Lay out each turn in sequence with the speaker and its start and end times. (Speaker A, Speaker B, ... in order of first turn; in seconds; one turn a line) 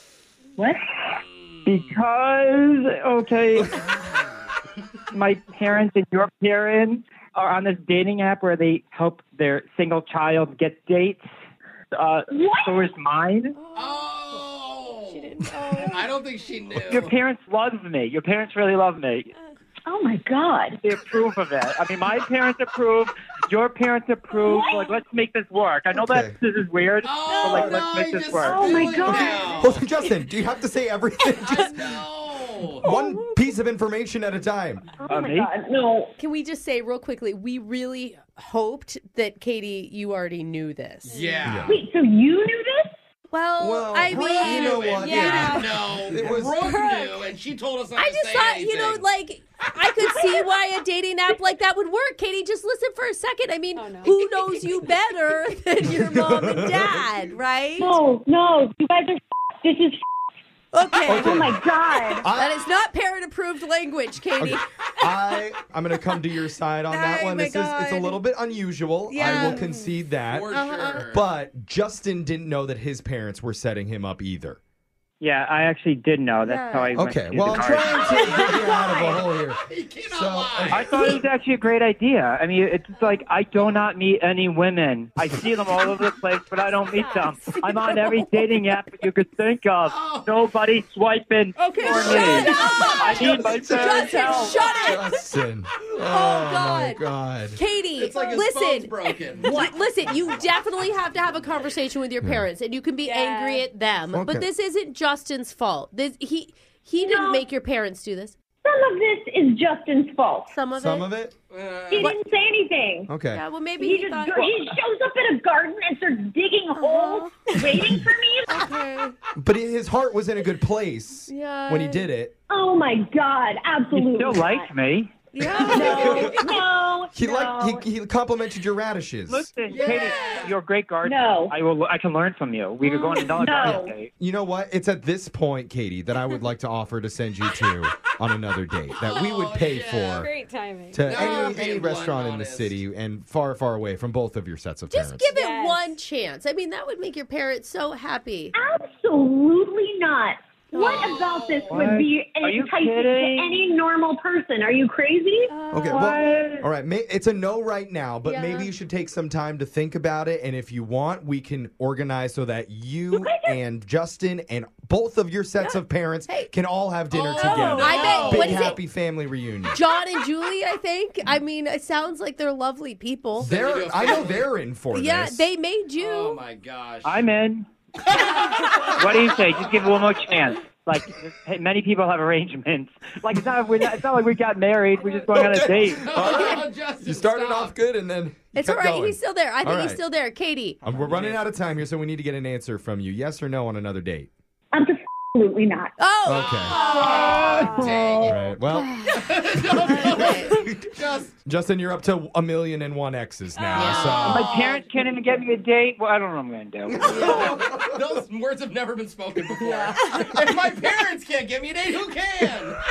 Speaker A: 0.6-0.9
Speaker B: 1.1-2.0
Speaker C: 1.6-3.8
Speaker C: 5.1-11.2
Speaker C: 11.9-13.5
Speaker A: 12.3-12.9
Speaker B: 13.7-17.1
Speaker D: 15.4-16.0
Speaker C: 16.9-19.3
Speaker A: 19.9-20.8
Speaker C: 20.8-29.1
Speaker A: 24.4-24.9
Speaker E: 25.9-26.4
Speaker B: 27.0-29.9
Speaker A: 28.4-29.6
Speaker E: 29.6-31.9
Speaker B: 31.4-32.9
Speaker E: 32.8-34.8
Speaker D: 32.8-33.3
Speaker A: 35.0-36.1
Speaker C: 35.1-35.5
Speaker D: 36.2-41.1
Speaker B: 41.0-41.8
Speaker E: 41.4-41.7
Speaker A: 41.7-42.9
Speaker D: 43.3-45.6
Speaker E: 43.6-47.0
Speaker B: 44.0-49.0
Speaker F: 45.0-45.7
Speaker F: 46.7-47.1
Speaker D: 48.0-58.0
Speaker A: 50.0-50.5
Speaker F: 53.7-54.2
Speaker E: 55.9-57.0
Speaker A: 57.8-60.0
Speaker D: 60.7-61.5
Speaker A: 61.0-62.3
Speaker E: 61.0-61.6
Speaker E: 62.2-62.7
Speaker D: 62.2-65.1
Speaker E: 64.4-70.5
Speaker D: 66.9-68.2
Speaker D: 69.1-70.0
Speaker B: 70.3-71.3
Speaker D: 70.5-71.0
Speaker E: 71.0-74.6
Speaker C: 75.2-78.1
Speaker D: 76.4-77.0
Speaker E: 76.9-80.9
Speaker A: 77.9-79.2
Speaker B: 77.9-81.2
Speaker C: 80.7-94.6
Speaker B: 89.8-90.4
Speaker D: 91.6-95.1
Speaker E: 91.9-97.6
Speaker D: 96.0-97.0
Speaker D: 97.5-108.3
Speaker B: 98.0-100.3
Speaker F: 103.0-103.7
Speaker E: 104.1-104.5
Speaker A: 107.0-107.4
Speaker A: 108.6-110.5
Speaker D: 110.5-111.1
Speaker E: 110.8-111.3
Speaker B: 111.5-112.2
Speaker A: 111.9-113.1
Speaker E: 113.1-113.4
Speaker D: 113.3-114.8
Speaker A: 113.8-118.6
Speaker D: 116.7-117.5
Speaker D: 118.5-119.1
Speaker E: 119.3-122.3
Speaker D: 121.3-122.1
Speaker A: 122.5-124.7
Speaker C: 123.9-125.1
Speaker D: 125.3-126.4
Speaker E: 125.5-126.4
Speaker A: 125.6-127.8
Speaker E: 127.1-129.5
Speaker C: 129.3-134.1
Speaker B: 129.7-130.6
Speaker A: 129.8-130.3
Speaker A: 131.0-131.5
Speaker A: 132.8-133.9
Speaker E: 134.2-140.3
Speaker B: 139.0-140.3
Speaker F: 140.1-141.0
Speaker E: 140.9-145.3
Speaker B: 141.0-142.8
Speaker D: 144.9-148.6
Speaker F: 145.3-145.9
Speaker A: 148.5-156.2
Speaker D: 150.7-151.1
Speaker B: 150.8-151.9
Speaker C: 151.7-153.6
Speaker F: 155.5-155.9
Speaker E: 155.7-169.8
Speaker C: 156.2-156.7
Speaker D: 158.2-158.7
Speaker A: 163.1-163.6
Speaker D: 165.6-166.5
Speaker B: 167.1-168.7
Speaker D: 167.4-168.8
Speaker D: 169.7-173.5
Speaker B: 173.4-174.5
Speaker E: 173.4-175.5
Speaker D: 174.9-176.4
Speaker B: 176.0-177.3
Speaker C: 177.1-177.6
Speaker B: 178.1-179.7
Speaker C: 178.2-186.1
Speaker B: 185.1-187.8
Speaker E: 186.1-190.0
Speaker D: 188.5-190.8
Speaker E: 190.8-194.3
Speaker B: 190.9-191.4
Speaker A: 194.7-195.9
Speaker D: 196.0-199.2
Speaker E: 196.2-196.8
Speaker B: 196.7-201.4
Speaker C: 197.3-197.8
Speaker E: 198.2-199.0
Speaker E: 199.8-200.7
Speaker D: 199.9-200.5
Speaker E: 201.4-204.5
Speaker B: 203.7-204.6
Speaker D: 203.7-204.8
Speaker C: 204.2-207.5
Speaker B: 207.0-212.8
Speaker D: 207.0-207.5
Speaker D: 209.6-209.9